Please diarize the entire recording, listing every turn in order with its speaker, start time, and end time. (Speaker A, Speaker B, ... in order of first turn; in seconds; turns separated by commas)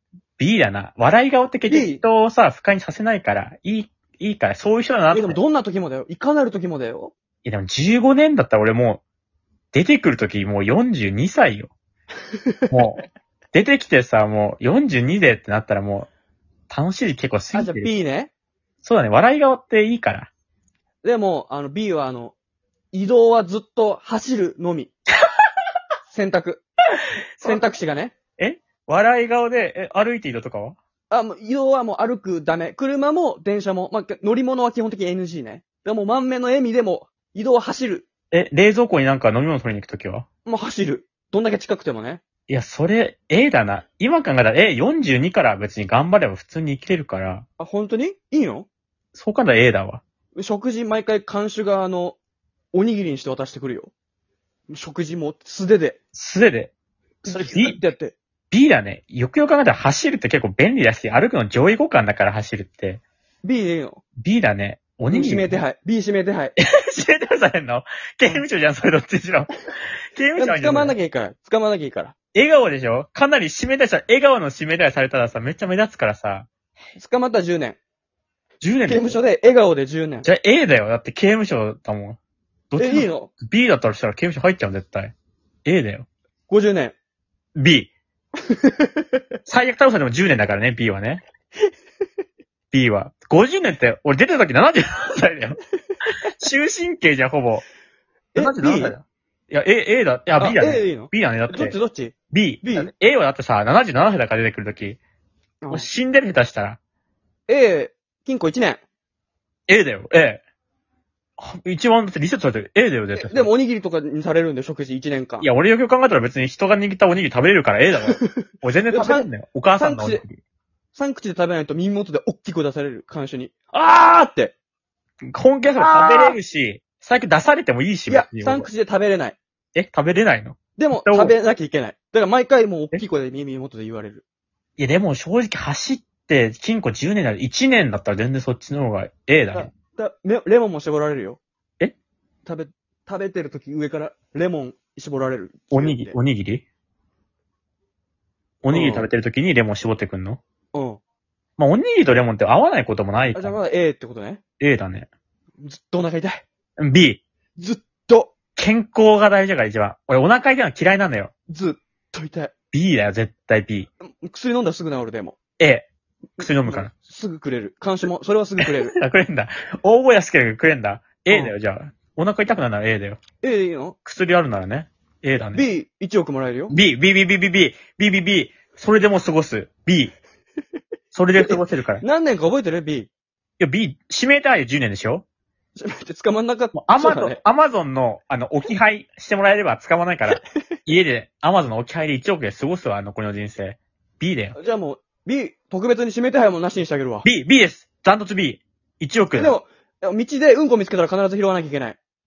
Speaker A: 0.4-5.4, Speaker B: 1.7-2.0, Speaker B: 5.1-7.1, Speaker A: 7.4-9.0, Speaker A: 9.7-11.7, Speaker A: 12.7-16.1, Speaker A: 16.7-17.9, Speaker B: 17.5-18.3, Speaker A: 18.8-20.3, Speaker B: 21.0-22.4, Speaker B: 22.9-24.9, Speaker B: 26.1-26.6, Speaker A: 27.4-27.7, Speaker B: 27.4-28.1, Speaker A: 28.4-30.8, Speaker B: 31.1-38.1, Speaker A: 38.3-40.2, Speaker B: 40.5-42.2, Speaker A: 42.5-47.4, Speaker B: 47.6-48.7, Speaker A: 49.1-50.0, Speaker B: 50.4-52.2, Speaker B: 52.7-53.9, Speaker B: 54.7-56.0, Speaker A: 56.1-56.7, Speaker B: 57.2-58.1, Speaker A: 57.2-57.8, Speaker A: 58.5-63.0, Speaker B: 63.4-64.0, Speaker A: 64.2-65.6, Speaker B: 65.1-66.5, Speaker A: 66.6-69.5, Speaker A: 70.1-71.0, Speaker B: 70.4-72.1, Speaker A: 72.3-76.5, Speaker B: 77.0-77.8, Speaker A: 78.6-79.2, Speaker B: 78.9-80.3, Speaker A: 80.2-82.2, Speaker A: 82.7-85.1, Speaker B: 82.8-83.3, Speaker A: 85.6-86.1, Speaker B: 86.5-86.9, Speaker A: 87.6-87.9, Speaker B: 88.5-89.0, Speaker A: 89.5-91.2, Speaker A: 92.7-95.6, Speaker A: 96.3-97.6, Speaker B: 98.3-99.0, Speaker A: 98.3-101.8, Speaker B: 100.4-102.9, Speaker A: 102.3-105.0, Speaker B: 105.6-105.9, Speaker A: 105.7-106.8, Speaker B: 107.5-108.8, Speaker A: 109.7-110.4, Speaker A: 111.4-113.5, Speaker B: 113.1-115.5, Speaker A: 115.4-120.4, Speaker B: 118.1-120.2, Speaker B: 120.9-124.5, Speaker A: 125.3-128.7, Speaker B: 125.8-126.4, Speaker B: 128.1-129.4, Speaker A: 129.7-131.3, Speaker B: 130.8-134.2, Speaker A: 134.8-139.7, Speaker B: 139.5-141.4, Speaker B: 142.4-146.2, Speaker A: 145.7-146.6, Speaker A: 148.6-150.4, Speaker B: 148.7-149.1, Speaker B: 150.7-151.0, Speaker A: 151.6-153.6, Speaker B: 153.3-154.4, Speaker A: 154.6-155.1, Speaker B: 155.6-156.4, Speaker A: 156.8-157.2, Speaker B: 157.6-158.3, Speaker A: 158.6-161.3, Speaker B: 161.5-162.5, Speaker A: 162.7-163.9, Speaker B: 164.0-165.4, Speaker A: 165.6-166.9, Speaker B: 166.4-168.9, Speaker A: 168.6-173.2, Speaker B: 171.3-171.5, Speaker B: 173.4-173.9, Speaker A: 174.0-175.7, Speaker B: 175.5-176.7, Speaker A: 176.7-180.1, Speaker A: 181.1-182.0, Speaker B: 181.4-183.1, Speaker A: 183.6-185.2, Speaker B: 185.8-187.4, Speaker A: 186.7-194.6, Speaker B: 194.6-197.2, Speaker A: 197.2-199.6, Speaker B: 199.3-202.0